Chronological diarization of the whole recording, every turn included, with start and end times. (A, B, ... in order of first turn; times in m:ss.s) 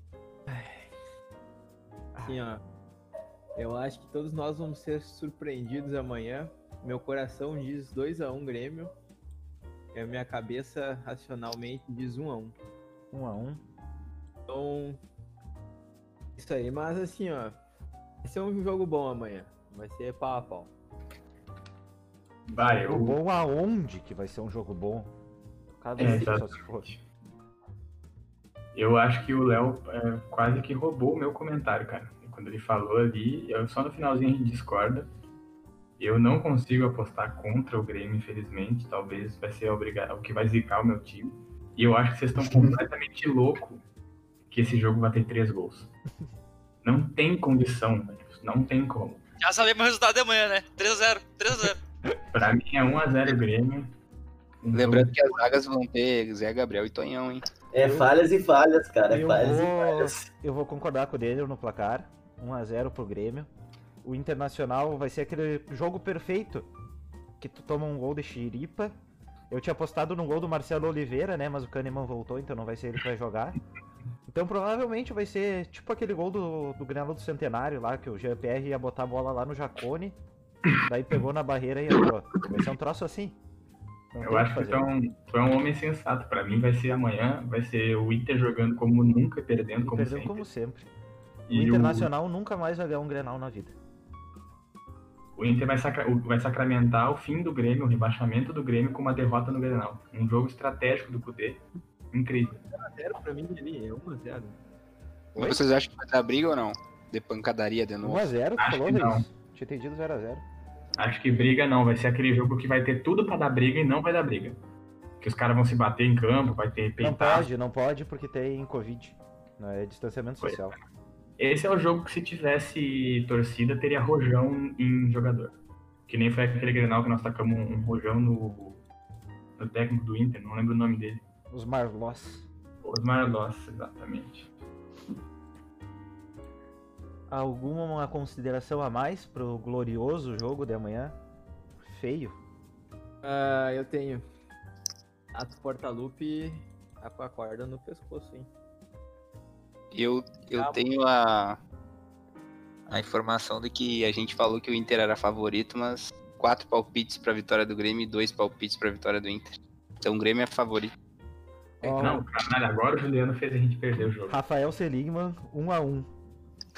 0:00.5-0:00.9 A
0:02.2-0:02.6 A
0:03.6-0:08.9 A
0:09.9-0:12.5 A
0:13.1-0:13.6 B
0:14.5-0:15.0 A
0:16.4-0:17.6 A
0:18.2-0:20.7 A
0:22.5-0:23.2 C
0:22.8-0:25.1 B
0:25.8-0:26.9 B
0:26.0-0:26.3 A
0:26.0-0:27.0 C
0:28.7-0:35.1 C
0:36.0-0:43.8 C
0:44.5-0:45.9 C
0:46.8-0:49.2 C
0:49.4-0:51.8 D
0:52.3-0:53.9 C
0:54.6-0:55.1 C
0:54.7-0:57.4 E
0:57.7-1:00.1 F
0:59.1-1:03.5 B
1:04.0-1:06.7 B
1:07.4-1:08.9 B
1:09.5-1:13.6 B
1:14.3-1:20.2 B
1:20.8-1:23.4 B
1:24.1-1:24.9 B
1:24.2-1:30.4 C
1:29.8-1:30.9 B
1:31.5-1:32.1 C
1:31.5-1:33.7 B
1:35.4-1:42.6 C
1:42.3-1:44.6 A
1:45.3-1:45.6 B
1:45.3-1:48.3 E
1:48.0-1:50.4 B
1:48.6-1:49.2 C
1:51.0-1:54.6 C
1:55.2-1:57.5 C
1:57.0-2:00.8 B
2:00.4-2:00.6 C
2:01.4-2:05.5 C
2:06.1-2:08.8 C
2:09.6-2:11.2 C
2:11.5-2:12.4 B
2:12.8-2:14.5 C
2:17.3-2:21.2 B
2:21.8-2:22.4 B
2:23.2-2:24.2 A
2:25.3-2:28.5 A
2:29.9-2:31.6 E
2:30.5-2:30.8 A
2:32.9-2:40.9 E
2:41.8-2:42.2 B
2:41.8-2:42.2 A
2:42.0-2:44.3 C
2:44.3-2:46.1 B